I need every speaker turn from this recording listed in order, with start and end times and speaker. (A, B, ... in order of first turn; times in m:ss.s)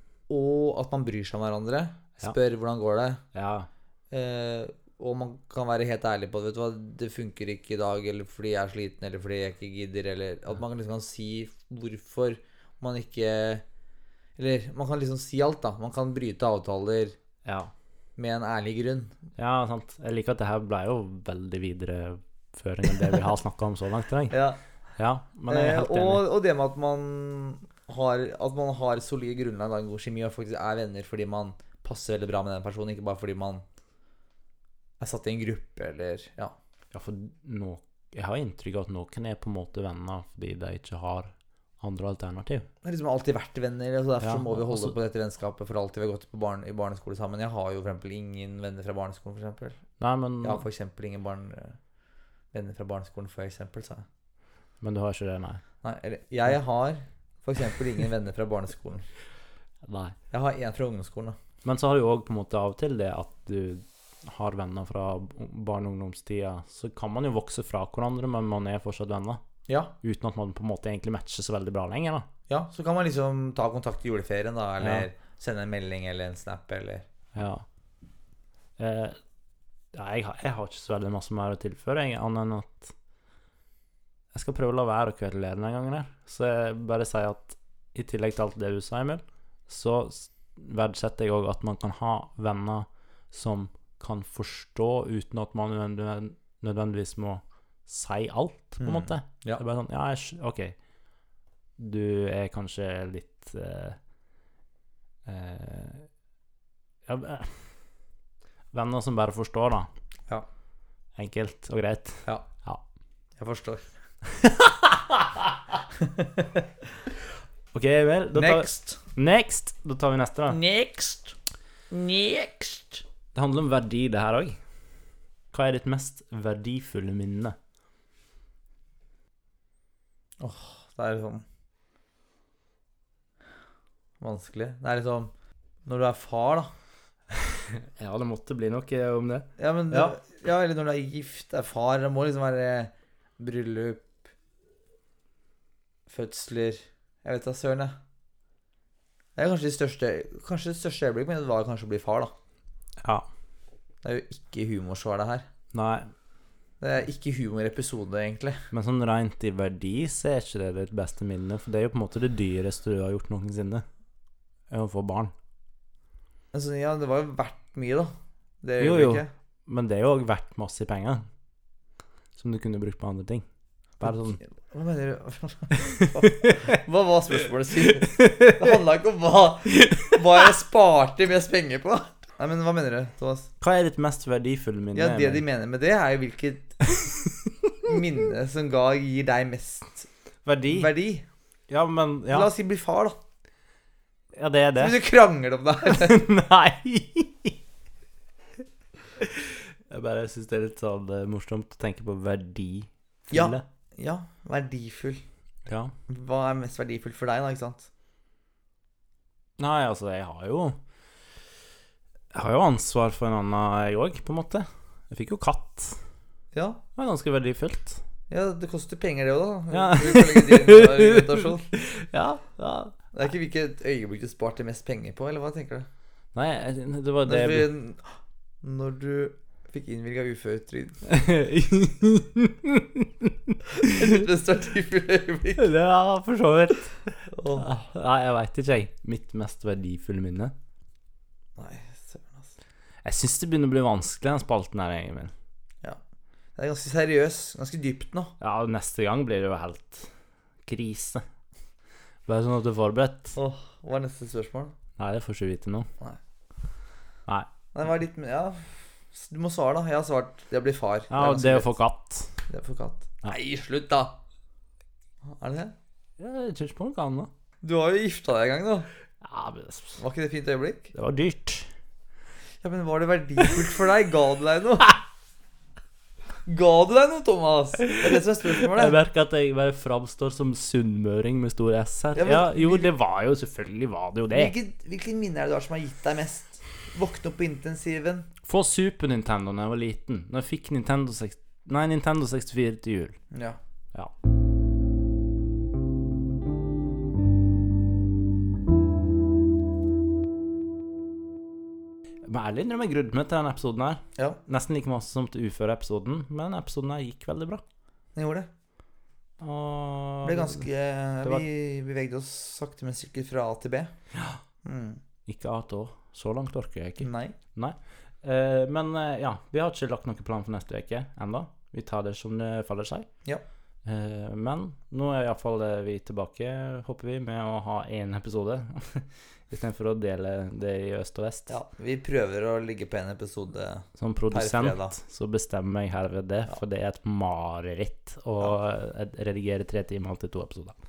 0:00.3-0:03.2 A
0:03.3-0:03.7 B
0:04.1-0:13.6 A
0:14.4-0:17.2 A
0:17.4-0:17.7 B
0:18.2-0:19.2 A
0:19.4-0:24.4 B
0:24.3-0:24.6 A
0:25.0-0:26.2 B
0:25.5-0:33.6 A
0:35.0-0:36.5 A
0:36.9-0:42.7 B
0:42.8-0:49.8 A
0:44.2-0:45.0 B
0:50.0-0:50.6 B
0:50.4-0:51.8 A
0:52.5-0:54.0 A
0:54.8-0:55.6 B
0:55.8-0:59.0 A
0:59.8-1:00.2 B
1:00.3-1:01.4 A
1:01.6-1:09.4 B
1:09.7-1:09.9 A
1:10.0-1:12.3 B
1:12.5-1:17.1 A
1:14.8-1:15.1 B
1:17.3-1:17.6 B
1:18.8-1:19.2 B
1:19.9-1:22.9 B
1:24.3-1:40.7 B
1:38.8-1:39.6 A
1:41.8-1:44.0 B
1:45.2-1:46.1 B
1:47.0-1:47.7 B
1:48.7-1:49.9 B
1:51.2-1:52.8 B
1:53.4-1:53.8 A
1:54.4-1:55.5 B
1:56.0-1:56.6 A
1:57.7-2:00.6 B
1:58.3-1:59.0 A
2:00.5-2:01.3 A
2:01.9-2:03.0 A
2:03.3-2:04.6 B
2:05.5-2:07.6 B
2:10.4-2:11.4 A
2:14.2-2:15.3 A
2:15.8-2:16.7 A
2:17.3-2:20.1 B
2:19.6-2:24.2 A
2:26.1-2:28.0 A
2:29.4-2:32.3 A
2:33.0-2:33.3 B
2:34.0-2:35.5 A
2:35.7-2:36.1 B
2:36.8-2:38.6 A
2:38.7-2:43.8 B
2:44.7-2:45.3 B
2:46.5-2:49.3 A
2:48.8-2:51.2 B
2:52.4-2:53.4 B
2:54.0-2:54.4 B
2:54.0-3:03.5 A
2:56.0-2:56.6 B
2:58.0-2:58.8 B
3:03.6-3:05.4 B
3:04.9-3:06.9 A
3:07.0-3:07.7 B
3:07.8-3:10.1 A
3:10.4-3:10.9 B
3:10.7-3:11.3 A
3:11.7-3:12.5 B
3:12.3-3:13.2 A
3:14.3-3:15.0 B
3:14.8-3:16.2 A
3:15.8-3:17.6 B
3:19.2-3:23.6 B
3:23.3-3:25.2 A
3:25.6-3:25.9 B
3:26.1-3:27.9 A
3:29.6-3:30.8 B
3:32.3-3:36.0 B
3:36.5-3:36.8 A
3:36.9-3:38.0 B
3:38.3-3:41.7 A
3:39.7-3:43.0 B
3:43.1-3:45.9 A
3:46.3-3:47.7 B
3:47.2-3:51.0 A
3:51.0-3:54.2 B
3:53.7-3:55.7 A
3:55.6-4:00.5 B
3:57.3-3:57.7 A
4:01.6-4:02.6 A
4:03.0-4:05.3 B
4:06.6-4:08.4 A
4:08.4-4:10.1 B
4:10.6-4:11.2 B
4:12.2-4:13.3 B
4:13.3-4:14.8 A
4:15.0-4:15.9 B
4:17.7-4:21.7 A
4:21.1-4:22.4 B
4:22.5-4:24.2 A
4:25.2-4:25.7 A
4:26.2-4:27.3 B
4:27.6-4:28.9 A
4:29.2-4:30.0 B
4:30.0-4:30.9 A
4:30.9-4:31.7 B
4:32.6-4:35.0 A
4:36.4-4:39.0 A
4:38.0-4:44.5 B
4:42.2-4:42.9 A
4:44.3-4:48.3 A
4:48.4-4:53.2 B
4:53.3-4:53.6 A
5:02.2-5:07.6 B
5:08.2-5:08.5 A
5:09.4-5:10.6 B
5:10.2-5:13.9 A
5:14.1-5:14.4 B
5:14.6-5:15.0 A
5:15.2-5:23.1 B
5:17.0-5:17.4 A
5:23.8-5:31.6 B
5:31.5-5:34.9 A
5:34.0-5:40.8 B